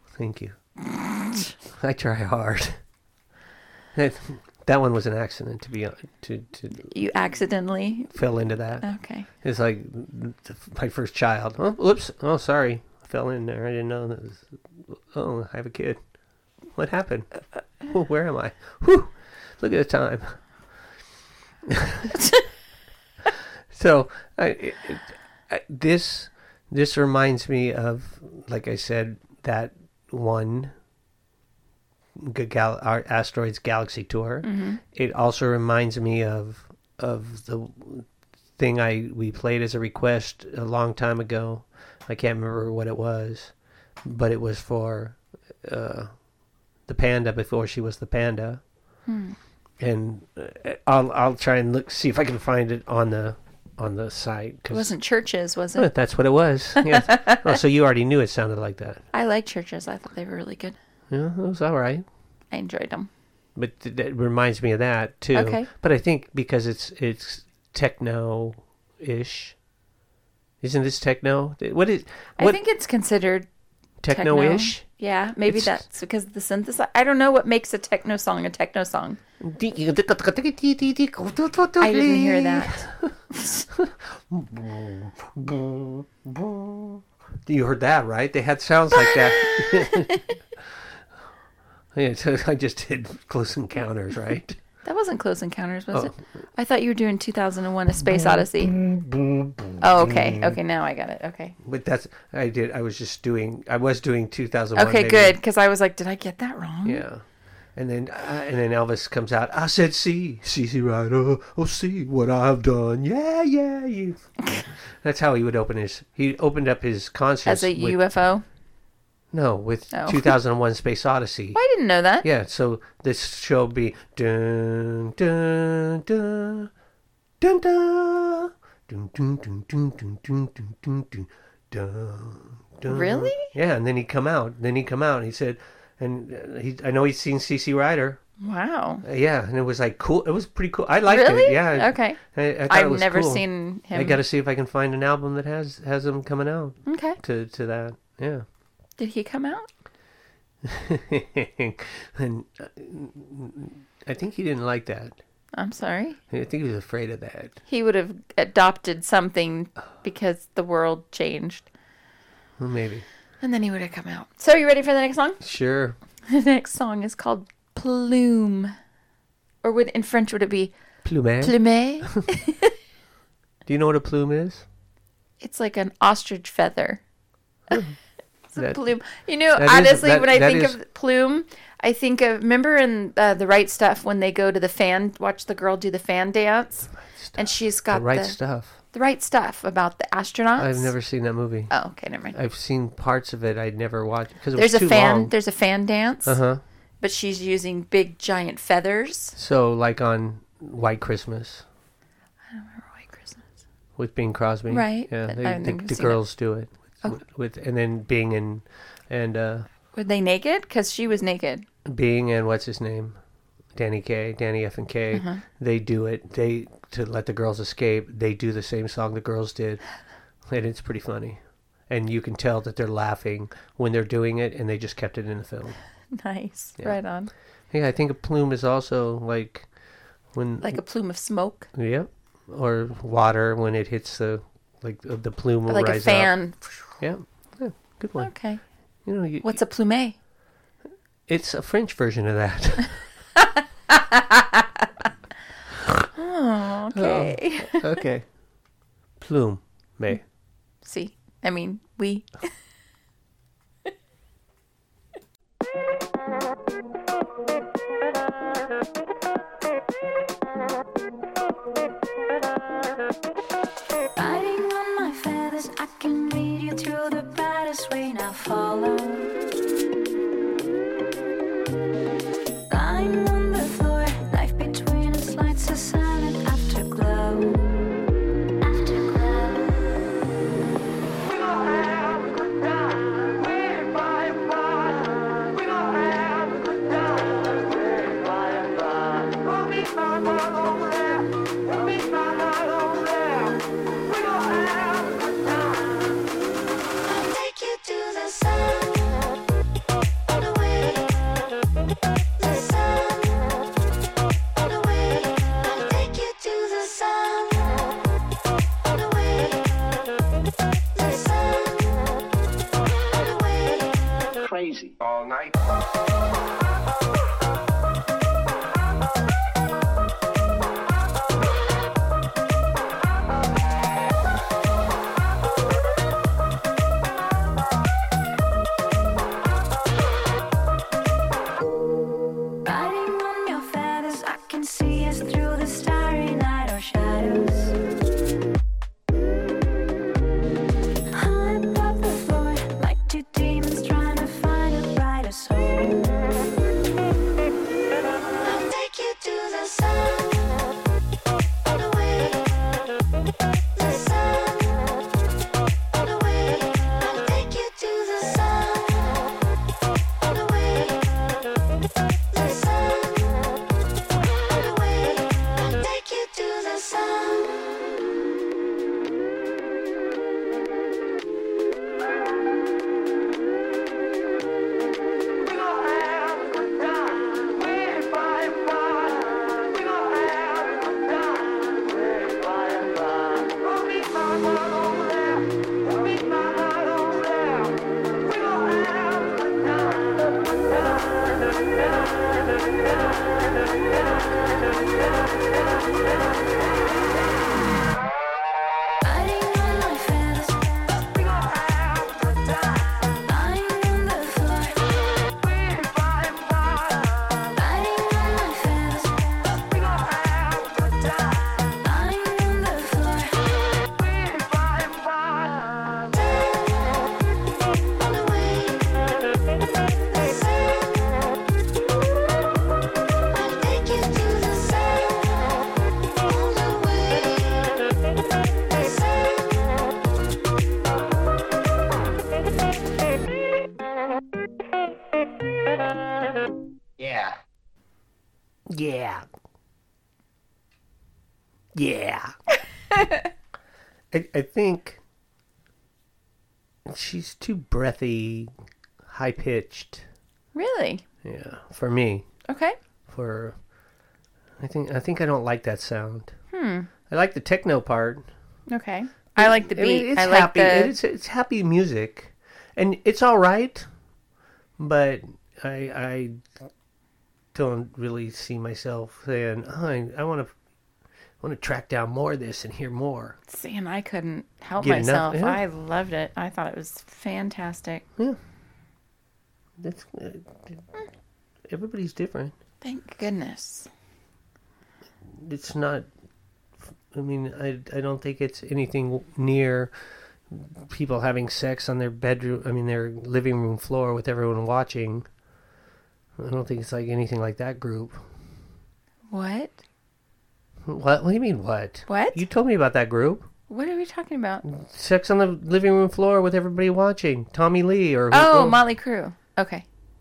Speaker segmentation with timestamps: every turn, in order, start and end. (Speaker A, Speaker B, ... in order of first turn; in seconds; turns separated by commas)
Speaker A: 0.2-0.6, Speaker B: 0.9-1.5, Speaker A: 1.8-2.8, Speaker A: 4.0-6.9, Speaker B: 6.9-8.2, Speaker A: 8.1-8.9, Speaker B: 8.8-9.3, Speaker A: 9.4-16.0, Speaker A: 16.7-20.4, Speaker A: 21.7-22.2, Speaker A: 23.7-30.7, Speaker A: 32.2-38.1, Speaker B: 34.4-34.8, Speaker A: 38.6-43.5, Speaker A: 44.0-46.1, Speaker A: 46.9-48.6, Speaker B: 49.1-49.4, Speaker A: 49.8-54.9, Speaker B: 54.7-55.9, Speaker A: 55.8-59.0, Speaker B: 56.8-57.6, Speaker B: 59.1-60.8, Speaker A: 61.1-62.0, Speaker B: 62.5-63.1, Speaker A: 63.6-69.6, Speaker B: 65.3-65.7, Speaker A: 70.6-72.6, Speaker B: 72.4-73.5, Speaker A: 74.0-74.8, Speaker B: 74.1-79.2, Speaker A: 75.5-75.8, Speaker A: 79.4-83.1, Speaker B: 81.8-83.7, Speaker A: 83.7-90.3, Speaker B: 89.0-90.2, Speaker A: 91.9-94.6, Speaker B: 94.8-98.8, Speaker A: 98.1-100.6, Speaker B: 99.8-101.6, Speaker A: 101.6-105.4, Speaker B: 104.8-107.0, Speaker A: 106.8-107.2, Speaker A: 107.8-114.2, Speaker A: 114.8-118.0, Speaker B: 117.5-118.5, Speaker A: 119.3-121.6, Speaker B: 119.9-120.3, Speaker B: 121.5-122.3, Speaker A: 122.2-126.7, Speaker A: 127.4-138.2, Speaker B: 132.9-133.5, Speaker B: 138.4-139.0, Speaker A: 139.0-148.4, Speaker B: 141.1-144.2, Speaker B: 146.9-147.2, Speaker B: 149.0-149.7, Speaker A: 150.7-155.2, Speaker B: 155.5-156.2, Speaker A: 156.3-157.6, Speaker B: 157.7-161.7, Speaker A: 162.6-163.1, Speaker B: 163.4-165.4, Speaker A: 165.4-166.0, Speaker B: 166.3-168.8, Speaker B: 169.6-170.7, Speaker A: 171.1-172.2, Speaker B: 171.4-172.7, Speaker A: 173.7-174.7, Speaker B: 175.4-177.0, Speaker A: 177.7-178.0, Speaker B: 178.5-188.4, Speaker A: 178.6-178.8, Speaker A: 179.5-180.8, Speaker A: 187.2-188.8, Speaker B: 188.9-190.9, Speaker A: 190.6-191.7, Speaker B: 191.7-192.4, Speaker A: 192.3-195.3, Speaker B: 194.6-196.4, Speaker A: 196.2-196.6, Speaker B: 197.0-199.4, Speaker A: 199.4-201.7, Speaker B: 202.5-203.4, Speaker A: 204.0-209.7, Speaker B: 204.7-206.2, Speaker B: 209.9-211.7, Speaker A: 211.8-213.2, Speaker A: 213.8-219.8, Speaker B: 215.1-215.4, Speaker A: 220.5-225.8, Speaker B: 226.1-227.3, Speaker A: 227.7-229.7, Speaker A: 230.3-230.8, Speaker B: 230.6-231.7, Speaker A: 231.7-236.3, Speaker B: 235.7-236.9, Speaker A: 237.0-238.3, Speaker B: 238.2-238.6, Speaker A: 239.1-239.6, Speaker B: 239.4-240.2, Speaker A: 241.3-243.0, Speaker B: 243.4-244.9, Speaker B: 246.2-247.9, Speaker A: 246.9-248.3, Speaker A: 249.2-250.3, Speaker B: 250.8-252.3, Speaker C: 264.2-269.3, Speaker C: 272.7-277.6, Speaker C: 278.6-279.8, Speaker C: 297.1-299.1, Speaker C: 300.3-301.1, Speaker C: 302.4-303.5, Speaker C: 304.6-307.8, Speaker C: 308.9-309.7, Speaker C: 311.0-311.9, Speaker C: 313.1-313.9, Speaker C: 332.6-337.8, Speaker C: 341.1-346.4, Speaker C: 348.4-350.5, Speaker C: 351.7-352.4, Speaker C: 353.8-354.8, Speaker C: 356.0-359.2, Speaker C: 360.2-361.1, Speaker C: 362.3-363.3, Speaker C: 364.5-367.5, Speaker C: 399.0-405.1, Speaker C: 407.5-413.8, Speaker C: 416.1-417.0, Speaker C: 418.0-419.0, Speaker C: 420.1-421.0, Speaker C: 423.3-425.3, Speaker C: 426.2-427.8, Speaker C: 428.7-429.6, Speaker A: 438.7-439.2, Speaker A: 441.8-442.3, Speaker B: 442.9-443.3, Speaker A: 444.1-445.0, Speaker A: 446.9-448.5, Speaker A: 449.1-450.1, Speaker B: 450.5-451.0, Speaker A: 451.2-452.3, Speaker B: 452.5-452.8, Speaker A: 453.1-453.6, Speaker A: 454.6-456.4, Speaker B: 456.5-456.9, Speaker A: 457.1-458.3, Speaker B: 458.7-460.9, Speaker A: 459.4-463.9, Speaker A: 464.8-466.4, Speaker A: 467.5-470.5, Speaker A: 471.4-473.4, Speaker B: 473.5-478.1, Speaker A: 474.8-475.6, Speaker A: 479.8-480.8, Speaker A: 481.7-482.5, Speaker B: 482.8-483.9, Speaker A: 485.4-486.1, Speaker A: 487.1-489.9, Speaker A: 490.5-495.3, Speaker A: 496.4-498.2, Speaker B: 499.3-499.8, Speaker A: 500.9-503.5, Speaker B: 502.1-502.4, Speaker B: 503.7-504.6, Speaker A: 504.6-508.8, Speaker B: 508.3-509.9